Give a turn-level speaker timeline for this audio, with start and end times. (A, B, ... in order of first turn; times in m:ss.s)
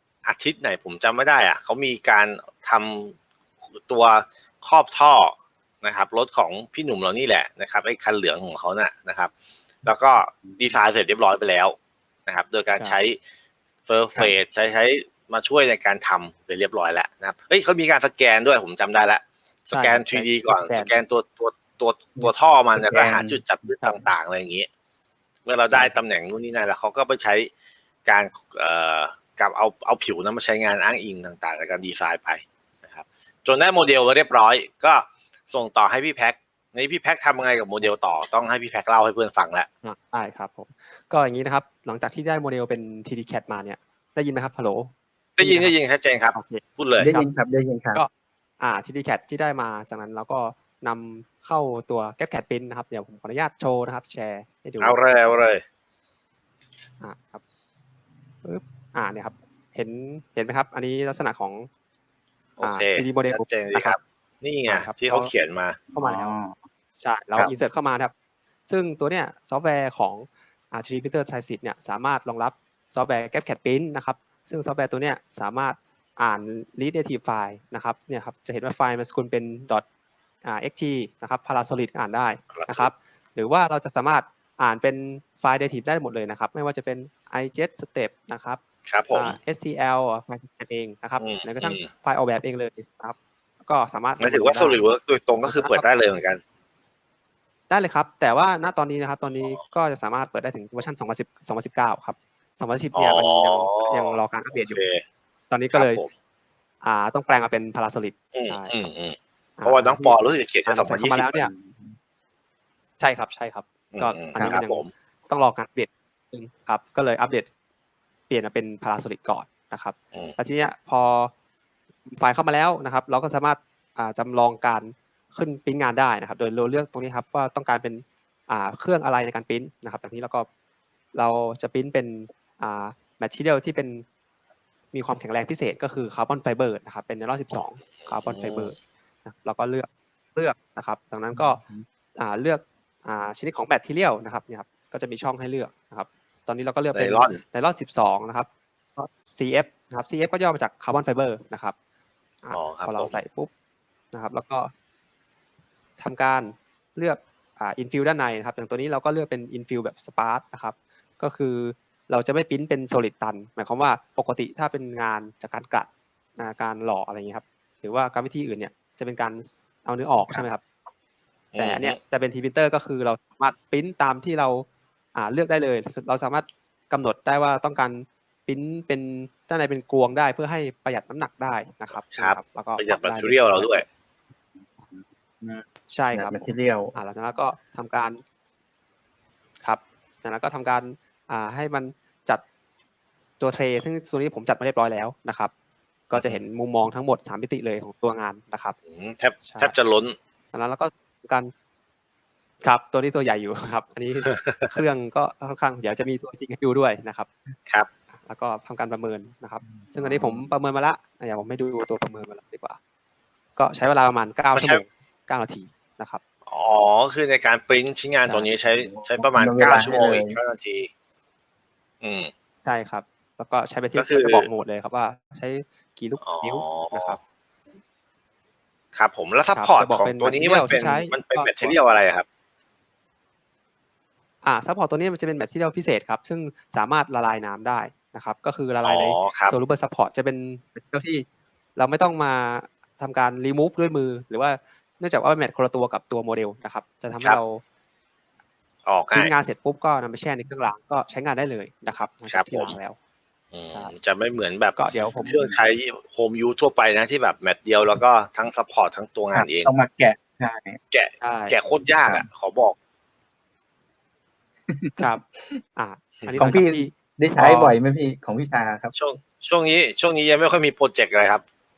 0:00.2-0:03.2 A
0:03.8-0:09.3 A
0:09.8-0:11.8 A
0:10.4-0:10.8 B
0:12.3-0:13.2 A
0:12.7-0:13.0 C
0:13.9-0:24.7 A
0:19.7-0:21.0 C
0:22.2-0:23.4 B
0:23.8-0:24.1 C
0:25.5-0:27.5 A
0:28.0-0:39.7 A
0:39.8-0:45.8 C
0:45.4-0:47.1 A
0:46.3-0:47.3 C
0:47.0-0:48.0 B
0:47.9-0:55.4 C
0:54.8-0:55.6 A
0:57.0-0:57.4 C
0:58.4-1:01.7 C
1:02.6-1:05.8 A
1:02.6-1:04.0 C
1:04.7-1:05.3 C
1:05.9-1:06.7 B
1:05.9-1:06.4 C
1:07.0-1:08.1 C
1:08.7-1:19.8 C
1:20.4-1:28.6 C
1:22.5-1:22.9 A
1:28.9-1:29.4 A
1:29.1-1:34.8 C
1:31.2-1:31.9 A
1:34.2-1:36.4 A
1:35.4-1:35.9 C
1:37.7-1:44.8 C
1:43.0-1:45.0 A
1:45.5-1:46.0 C
1:45.7-1:46.1 A
1:46.8-1:48.9 C
1:48.3-1:51.4 A
1:49.6-1:51.5 C
1:51.4-1:52.0 B
1:53.0-1:57.5 C
1:53.9-1:54.9 A
1:58.3-2:01.3 C
2:02.1-2:10.5 C
2:11.1-2:14.0 C
2:14.9-2:21.6 C
2:18.0-2:18.7 A
2:21.3-2:21.9 B
2:22.2-2:31.8 C
2:26.9-2:27.4 A
2:32.4-2:33.5 C
2:32.5-2:33.2 A
2:34.1-2:34.7 C
2:36.0-2:50.6 C
2:51.5-2:52.0 A
2:51.6-3:03.8 C
3:01.9-3:03.9 A
3:04.6-3:07.0 B
3:05.9-3:08.2 C
3:09.6-3:12.4 C
3:13.4-3:15.5 C
3:16.1-3:18.8 C
3:16.1-3:16.4 A
3:18.9-3:20.2 A
3:19.4-3:19.8 C
3:20.5-3:21.5 C
3:22.6-3:27.3 C
3:24.3-3:24.8 A
3:28.1-3:32.8 C
3:29.6-3:30.5 B
3:33.6-3:36.2 C
3:34.5-3:34.8 A
3:36.5-3:40.9 A
3:38.2-3:38.5 C
3:38.6-3:40.4 B
3:42.0-3:42.3 A
3:42.6-3:47.2 C
3:44.0-3:44.5 A
3:46.2-3:47.2 A
3:48.9-3:52.2 A
3:49.5-3:51.8 C
3:54.4-4:07.6 C
3:58.8-3:59.6 A
4:08.8-4:09.3 A
4:09.1-4:13.0 C
4:12.3-4:12.8 A
4:13.5-4:19.7 A
4:14.8-4:15.6 C
4:19.3-4:20.8 B
4:20.9-4:22.8 A
4:21.2-4:21.6 C
4:24.7-4:25.6 B
4:25.8-4:27.8 C
4:26.4-4:29.0 B
4:29.0-4:31.4 A